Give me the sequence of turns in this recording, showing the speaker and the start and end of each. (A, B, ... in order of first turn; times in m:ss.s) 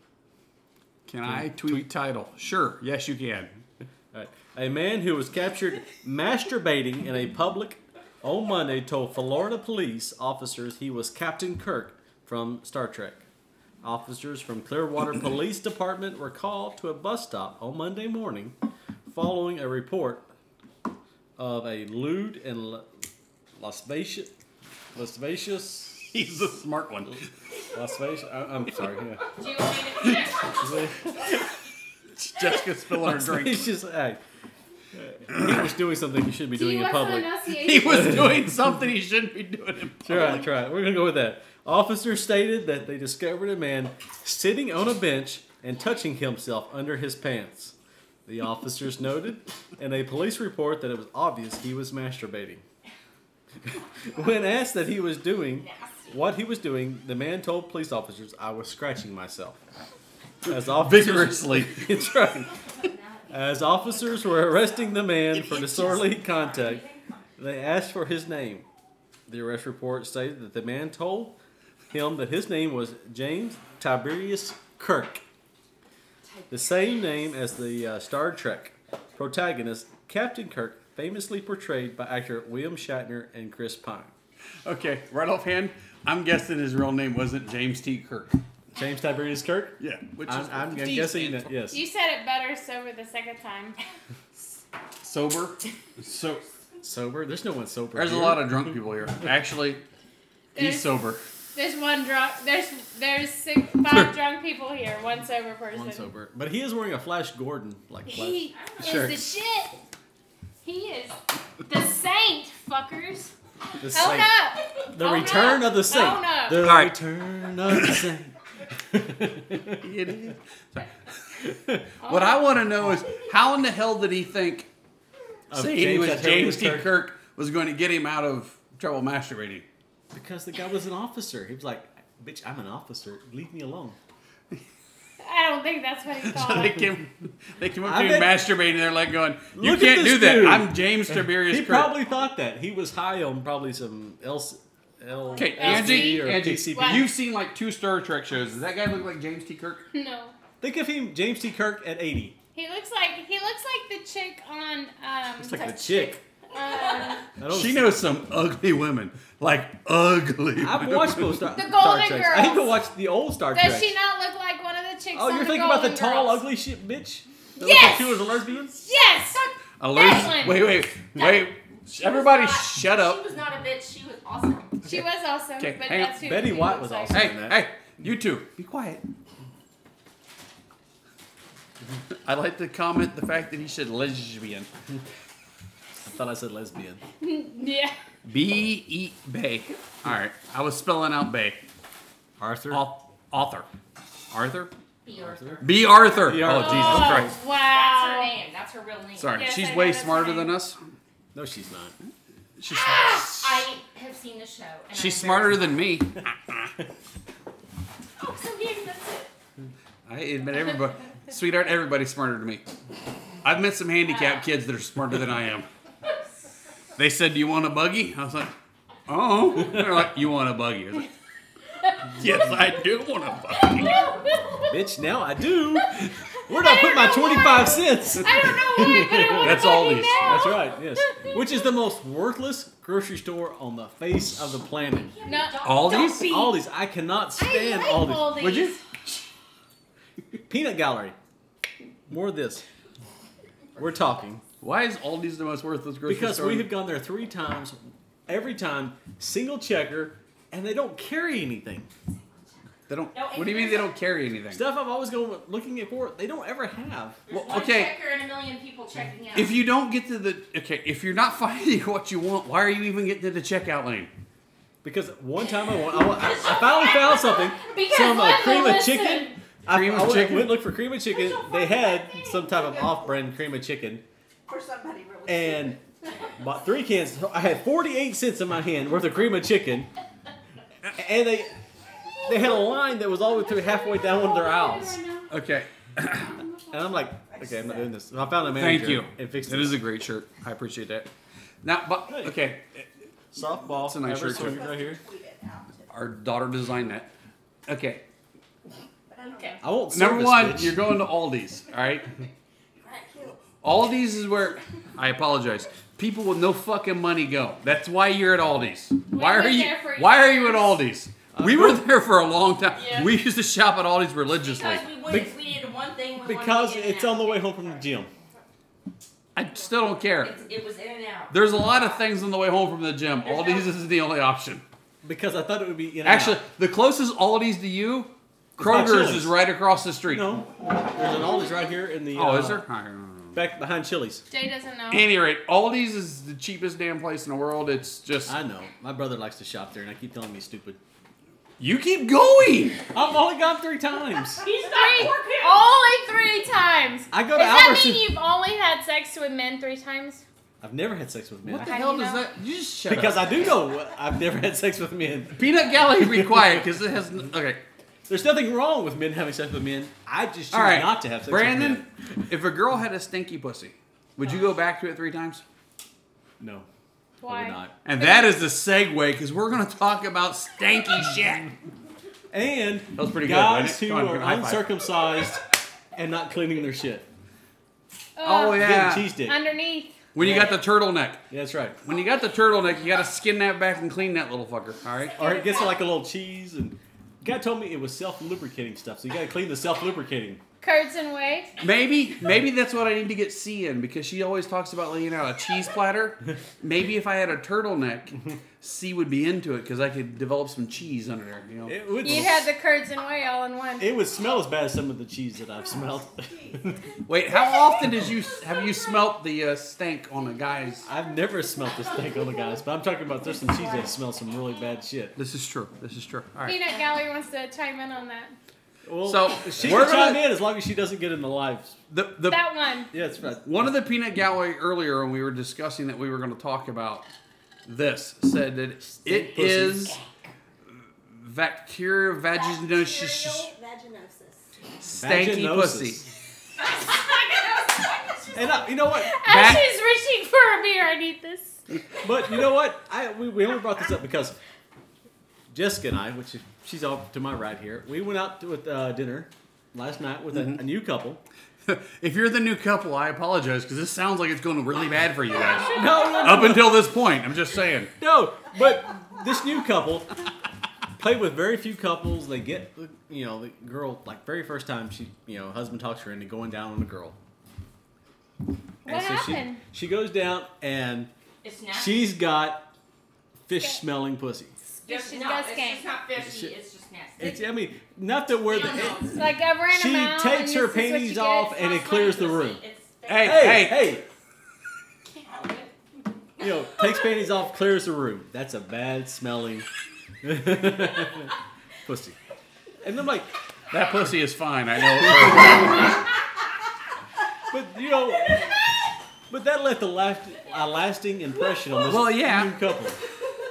0:01.1-0:03.6 A
0:01.2-0:01.9 B
0:04.1-0:13.2 B
0:13.8-0:18.5 B
0:19.1-0:20.3 B
0:21.4-0:22.9 B
0:23.6-0:24.3 B
0:24.9-0:26.4 B
0:26.1-0:27.2 A
0:27.7-0:29.2 B
0:29.4-0:30.9 C
0:30.6-0:31.2 B
0:32.2-0:33.7 A
0:33.0-0:34.2 B
0:34.9-0:38.6 B
0:35.3-0:35.6 A
0:36.5-0:38.1 D
0:37.5-0:40.4 A
0:40.0-0:47.7 B
0:48.2-0:52.6 B
0:53.6-0:59.6 B
0:55.6-0:56.2 C
1:00.4-1:02.5 B
1:00.6-1:01.9 A
1:02.7-1:04.8 C
1:03.3-1:06.8 B
1:05.3-1:07.3 C
1:07.4-1:08.7 B
1:09.3-1:11.4 B
1:11.9-1:15.2 B
1:16.2-1:16.8 C
1:16.5-1:24.1 B
1:24.6-1:28.4 A
1:28.7-1:31.8 B
1:29.8-1:31.5 A
1:31.7-1:33.8 D
1:35.0-1:36.4 A
1:36.8-1:38.7 B
1:37.9-1:39.8 A
1:40.5-1:40.9 D
1:40.6-1:41.2 A
1:41.5-1:46.1 D
1:45.7-1:49.2 B
1:48.1-1:49.8 D
1:48.5-1:49.0 C
1:48.9-1:49.1 A
1:50.6-1:53.3 D
1:53.8-1:54.3 B
1:53.9-1:56.6 D
1:54.8-1:59.8 B
1:56.6-1:56.9 A
1:59.8-2:00.9 A
2:02.0-2:02.4 D
2:02.0-2:04.7 A
2:05.5-2:06.9 B
2:05.5-2:09.6 A
2:10.1-2:14.0 B
2:15.2-2:16.9 D
2:16.2-2:22.0 A
2:17.8-2:18.4 B
2:19.5-2:27.1 B
2:25.4-2:27.1 D
2:25.4-2:29.8 A
2:29.9-2:30.3 D
2:30.6-2:32.4 B
2:32.5-2:37.3 D
2:35.4-2:36.2 B
2:37.4-2:38.0 B
2:37.5-2:41.4 A
2:40.6-2:43.9 B
2:41.5-2:42.8 D
2:43.5-2:46.4 D
2:45.1-2:48.8 B
2:47.6-2:48.2 D
2:48.7-2:50.7 D
2:49.8-2:53.2 A
2:51.9-2:54.8 C
2:54.8-2:57.2 D
2:55.6-2:56.2 A
2:56.1-2:57.6 B
2:57.1-2:59.0 A
3:02.2-3:04.7 A
3:06.0-3:07.0 B
3:07.2-3:07.9 D
3:08.2-3:11.6 A
3:12.4-3:12.9 B
3:12.7-3:13.7 A
3:14.3-3:14.7 A
3:15.0-3:15.7 C
3:15.2-3:17.3 B
3:15.6-3:17.3 A
3:16.4-3:18.3 D
3:17.4-3:19.5 C
3:19.2-3:20.8 A
3:19.4-3:20.6 D
3:21.3-3:21.9 B
3:22.6-3:23.7 A
3:22.8-3:25.8 C
3:24.9-3:26.7 A
3:28.2-3:29.3 C
3:30.1-3:32.6 A
3:33.4-3:35.7 A
3:34.1-3:34.4 C
3:37.0-3:38.5 A
3:39.1-3:41.1 A
3:39.7-3:39.9 B
3:42.1-3:44.1 A
3:43.9-3:44.7 D
3:44.7-3:55.1 B
3:46.5-3:51.6 D
3:49.0-3:50.4 A
3:54.9-3:56.2 C
3:55.2-3:56.6 D
3:55.6-3:56.4 A
3:56.1-3:58.7 B
3:57.4-3:58.8 D
3:58.4-3:58.8 A
4:00.5-4:01.2 B
4:02.1-4:02.6 B
4:03.8-4:04.4 B
4:04.6-4:06.7 A
4:06.0-4:11.9 B
4:12.1-4:12.5 C
4:12.9-4:14.6 A
4:13.1-4:14.1 C
4:14.5-4:17.2 B
4:17.3-4:19.6 C
4:17.3-4:17.9 A
4:19.3-4:24.1 A
4:24.8-4:34.0 B
4:25.6-4:27.6 C
4:27.6-4:29.4 D
4:29.7-4:30.6 A
4:31.2-4:33.2 E
4:34.5-4:35.8 E
4:35.2-4:35.8 B
4:36.4-4:39.9 B
4:40.9-4:41.6 B
4:42.2-4:45.0 B
4:43.3-4:45.3 D
4:45.3-4:46.4 A
4:46.3-4:46.8 D
4:46.7-4:49.8 B
4:47.3-4:47.9 E
4:48.6-4:51.1 A
4:51.6-4:52.9 A
4:52.1-4:52.4 B
4:53.3-4:55.0 B
4:53.8-4:54.7 A
4:54.2-4:55.9 E
4:55.9-4:57.1 A
4:57.7-4:58.0 A
4:59.1-4:59.6 E
4:59.2-4:59.6 D
4:59.6-5:00.9 B
4:59.9-5:02.1 A
5:02.8-5:03.5 E
5:03.6-5:14.9 A
5:09.1-5:10.8 D
5:11.3-5:11.8 B
5:12.7-5:13.2 D
5:14.4-5:18.2 C
5:15.0-5:15.3 B
5:16.2-5:18.1 B
5:19.3-5:20.3 A
5:20.2-5:21.4 C
5:21.3-5:24.6 A
5:25.0-5:26.4 B
5:26.0-5:30.4 A
5:28.6-5:29.4 B
5:30.1-5:32.6 B
5:32.1-5:33.4 A
5:33.3-5:34.2 B
5:34.3-5:35.1 D
5:34.9-5:38.3 A
5:38.2-5:40.8 B
5:41.6-5:42.8 A
5:42.9-5:44.4 B
5:44.4-5:45.6 C
5:44.6-5:50.2 D
5:47.1-5:48.1 B
5:50.6-5:51.8 B
5:51.4-5:53.4 A
5:51.6-5:52.3 D
5:52.8-5:56.7 B
5:55.3-5:57.6 A
5:58.1-6:01.9 B
6:00.5-6:05.4 A
6:06.4-6:06.7 B
6:07.2-6:08.4 D
6:07.2-6:07.7 B
6:07.8-6:11.5 A
6:12.3-6:15.4 B
6:12.9-6:14.6 A
6:15.9-6:17.1 B
6:18.2-6:20.0 D
6:18.2-6:19.1 A
6:18.5-6:19.4 B
6:20.1-6:21.2 A
6:20.2-6:20.6 B
6:21.3-6:21.8 B
6:21.8-6:25.3 A
6:25.2-6:25.8 D
6:25.2-6:30.4 B
6:30.6-6:31.5 D
6:31.6-6:42.3 A
6:41.6-6:42.5 B
6:42.0-6:43.9 D
6:43.8-6:46.8 B
6:46.0-6:46.8 E
6:47.1-6:50.9 A
6:50.8-6:55.2 B
6:55.2-6:56.6 A
6:56.4-6:58.3 D
6:58.8-7:01.8 B
6:59.0-7:00.3 A
7:01.9-7:02.5 A
7:02.3-7:02.9 D
7:02.9-7:03.7 B
7:03.4-7:07.1 A
7:07.6-7:10.0 A
7:09.0-7:10.0 B
7:11.1-7:13.5 A
7:12.3-7:14.5 E
7:14.8-7:16.0 A
7:14.9-7:16.1 B
7:16.6-7:18.6 C
7:18.3-7:19.1 B
7:18.9-7:21.6 D
7:19.2-7:19.6 A
7:22.0-7:24.4 B
7:25.5-7:31.2 B
7:30.3-7:30.6 A
7:31.6-7:37.9 A
7:35.7-7:36.9 B
7:38.0-7:40.1 B
7:41.0-7:47.2 B
7:48.8-7:49.6 D
7:48.8-7:51.1 B
7:51.4-7:52.1 C
7:51.7-7:52.7 B
7:53.5-7:54.5 B
7:54.8-7:55.9 D
7:54.8-7:57.4 C
7:56.2-7:56.5 B
7:57.2-8:02.6 B
7:58.4-7:59.3 C
7:59.0-8:01.6 D
8:01.5-8:03.9 C
8:03.0-8:03.9 A
8:03.2-8:04.0 B
8:05.2-8:05.7 C
8:06.4-8:09.7 B
8:10.2-8:11.3 B
8:11.8-8:12.2 B
8:12.8-8:13.3 B
8:13.7-8:15.9 A
8:17.5-8:18.6 B
8:19.3-8:23.0 B
8:21.8-8:22.5 A